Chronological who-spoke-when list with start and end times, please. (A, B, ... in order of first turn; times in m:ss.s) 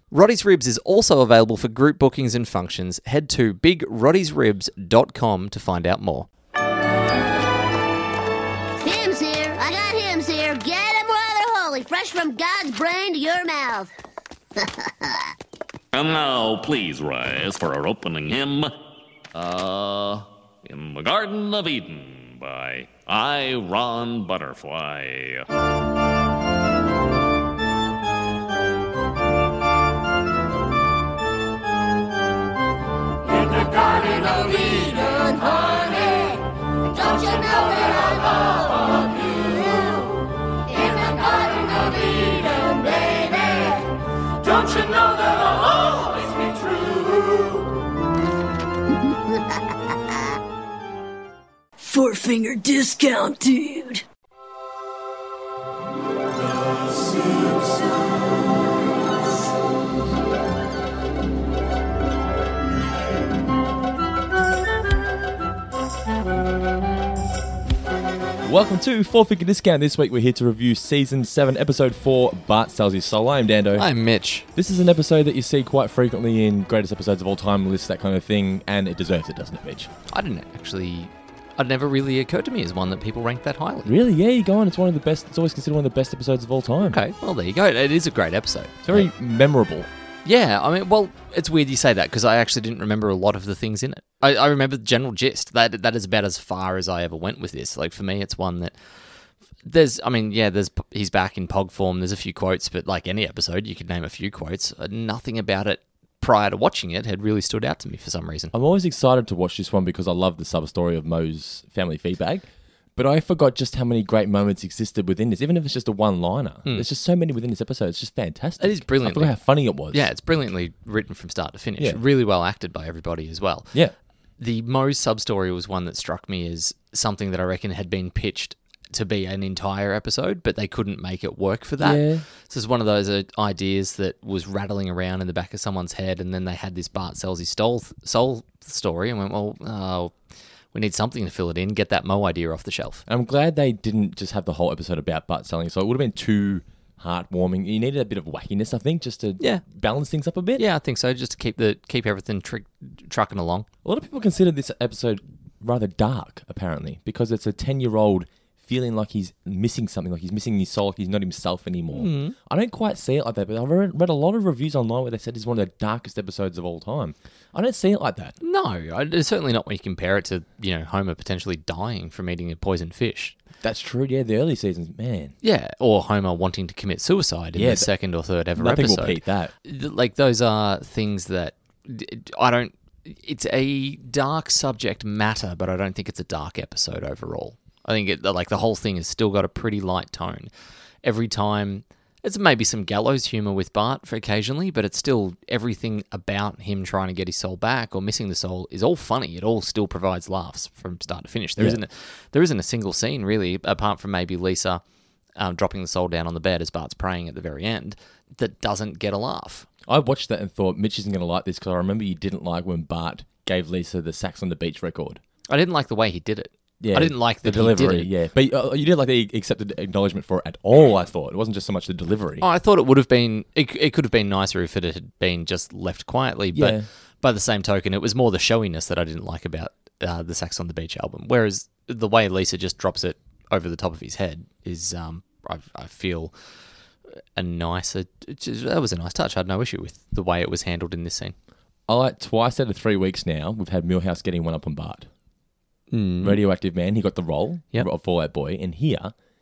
0:00.1-0:06.3 A
0:08.8-0:13.9 B
0:14.6-0:15.2 B
0:15.9-0:18.7 C
0:19.3-0:25.4 C
0:33.3-0:47.4 B
0:49.0-0:50.2 B
0:51.8-0:54.0 D
1:08.4-1:13.9 E
1:13.8-1:14.4 A
1:14.5-1:19.9 E
1:20.1-1:23.9 A
1:23.8-1:27.0 E
1:26.8-1:29.1 A
1:28.8-1:29.9 E
1:30.2-1:38.8 A
1:39.6-1:48.5 A
1:48.5-1:52.4 E
1:53.0-2:00.1 E
1:58.6-2:03.7 A
2:04.4-2:20.1 A
2:11.8-2:12.2 E
2:20.7-2:23.0 A
2:23.1-2:30.6 E
2:30.6-2:33.7 A
2:33.8-2:48.3 E
2:41.9-2:42.3 A
2:48.4-2:53.4 A
2:53.6-2:55.3 E
2:55.4-3:10.5 A
2:57.6-2:57.9 E
2:58.6-2:59.5 E
3:11.0-3:24.8 A
3:25.4-3:29.7 A
3:29.8-3:35.2 E
3:35.5-3:38.1 A
3:36.8-3:42.4 E
3:42.4-3:56.3 A
3:46.5-3:46.8 E
3:57.4-4:01.3 A
4:01.9-4:05.1 E
4:05.9-4:06.4 A
4:06.2-4:09.1 E